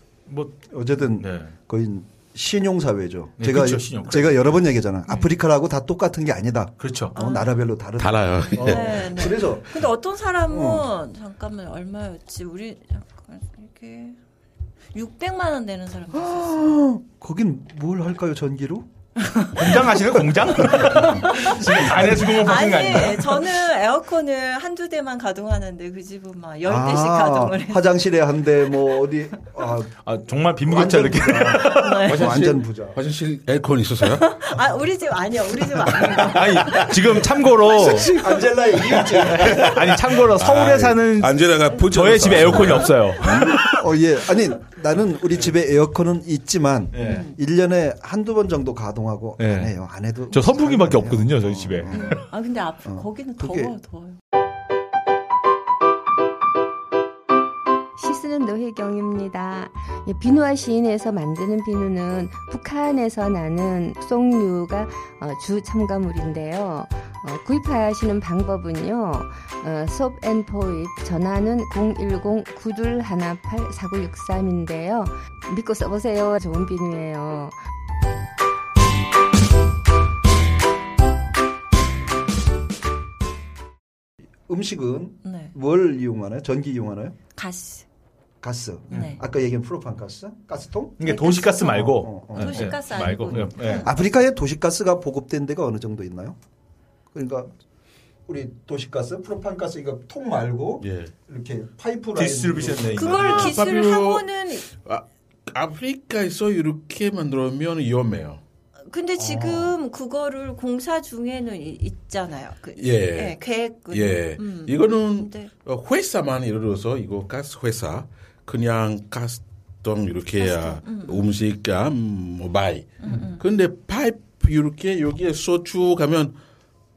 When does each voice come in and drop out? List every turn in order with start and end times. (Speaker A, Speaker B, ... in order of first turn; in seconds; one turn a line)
Speaker A: 0.3-0.6
Speaker B: 0.7-9.7
Speaker A: 1.1-1.5
Speaker A: 3.4-5.3
Speaker A: 6.8-7.2
Speaker C: 7.1-7.5
Speaker D: 8.0-9.0
Speaker C: 8.4-14.2
Speaker B: 10.5-10.9
Speaker C: 14.9-16.7
Speaker B: 16.1-18.9
Speaker A: 19.6-23.5
Speaker C: 20.9-27.9
Speaker B: 26.6-29.9
Speaker A: 30.0-32.6
Speaker B: 30.6-33.0
Speaker C: 31.4-32.4
Speaker D: 32.2-34.3
Speaker C: 34.0-36.9
Speaker A: 36.3-38.1
Speaker B: 37.7-39.8
Speaker D: 37.9-38.4
Speaker D: 38.9-43.6
Speaker A: 39.1-43.7
Speaker B: 42.3-52.2
Speaker A: 46.9-47.3
Speaker C: 47.0-47.3
Speaker A: 49.4-49.7
Speaker A: 50.3-52.3
Speaker C: 51.9-54.2
Speaker B: 52.8-53.7
Speaker E: 58.0-77.6
Speaker B: 84.5-87.2
Speaker C: 85.2-85.5
Speaker C: 87.3-87.8
Speaker B: 88.4-91.0
Speaker A: 88.9-89.1
Speaker C: 88.9-89.2
Speaker A: 91.0-93.9
Speaker C: 91.0-93.9
Speaker B: 91.6-96.4
Speaker B: 97.1-97.5
Speaker B: 98.3-103.1
Speaker D: 100.8-101.1
Speaker A: 102.1-103.6
Speaker C: 102.9-104.7
Speaker D: 103.1-108.4
Speaker C: 108.9-115.5
Speaker B: 109.2-109.8
Speaker D: 112.8-126.4
Speaker C: 120.4-121.2
Speaker C: 123.0-123.4